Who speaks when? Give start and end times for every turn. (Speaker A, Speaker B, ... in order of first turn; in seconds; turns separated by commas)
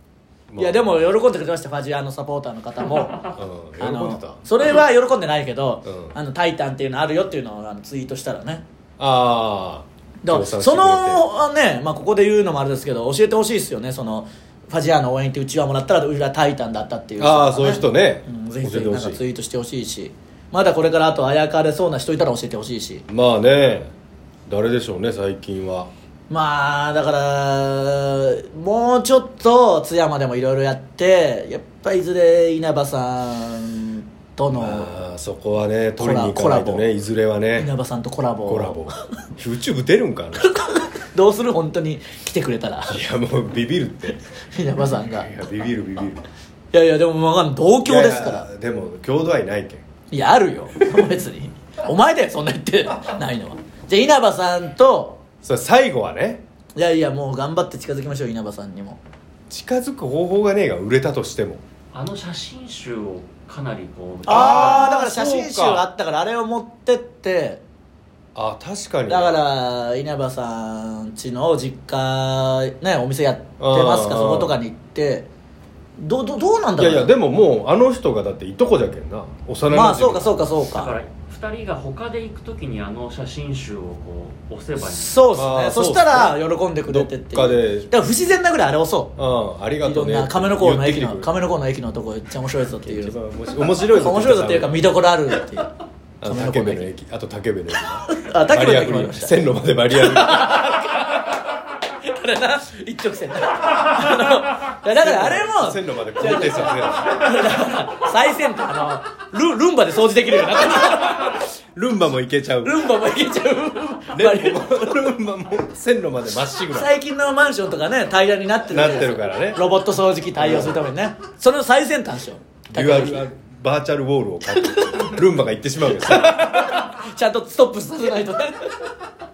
Speaker A: 0.5-1.0, Speaker B: 0.6-8.6, Speaker A: 3.3-4.4, Speaker A: 5.8-6.1, Speaker A: 9.0-11.2, Speaker B: 10.2-23.1, Speaker A: 17.2-19.2, Speaker A: 23.1-23.9, Speaker A: 24.5-25.9, Speaker B: 26.3-35.0, Speaker A: 34.5-37.7, Speaker B: 36.0-36.9, Speaker B: 37.6-38.8, Speaker A: 38.4-40.6, Speaker B: 40.4-43.0, Speaker A: 42.9-44.2, Speaker B: 44.5-45.3, Speaker A: 45.0-46.2, Speaker B: 46.7-48.5, Speaker A: 47.8-49.8, Speaker B: 50.1-55.2, Speaker A: 55.4-56.4, Speaker B: 56.8-59.0, Speaker A: 59.5-61.6, Speaker C: 61.9-64.9, Speaker B: 64.2-67.6, Speaker A: 64.3-65.8, Speaker A: 68.3-69.4, Speaker B: 69.1-75.3, Speaker A: 73.6-74.6, Speaker B: 76.0-77.1, Speaker A: 76.8-80.5, Speaker B: 79.7-80.9, Speaker C: 80.7-85.3, Speaker B: 84.9-89.2, Speaker A: 85.3-87.9, Speaker A: 89.2-91.3, Speaker B: 89.8-93.2, Speaker A: 92.8-95.0, Speaker B: 93.9-96.9, Speaker A: 96.2-100.7, Speaker B: 98.1-99.4, Speaker B: 99.9-111.5, Speaker A: 104.9-107.5, Speaker A: 111.7-112.8, Speaker B: 112.6-115.0, Speaker A: 114.1-116.9, Speaker B: 116.7-123.2, Speaker A: 118.7-119.6, Speaker A: 120.3-120.8, Speaker A: 122.7-126.8, Speaker B: 124.5-125.2, Speaker B: 125.9-128.9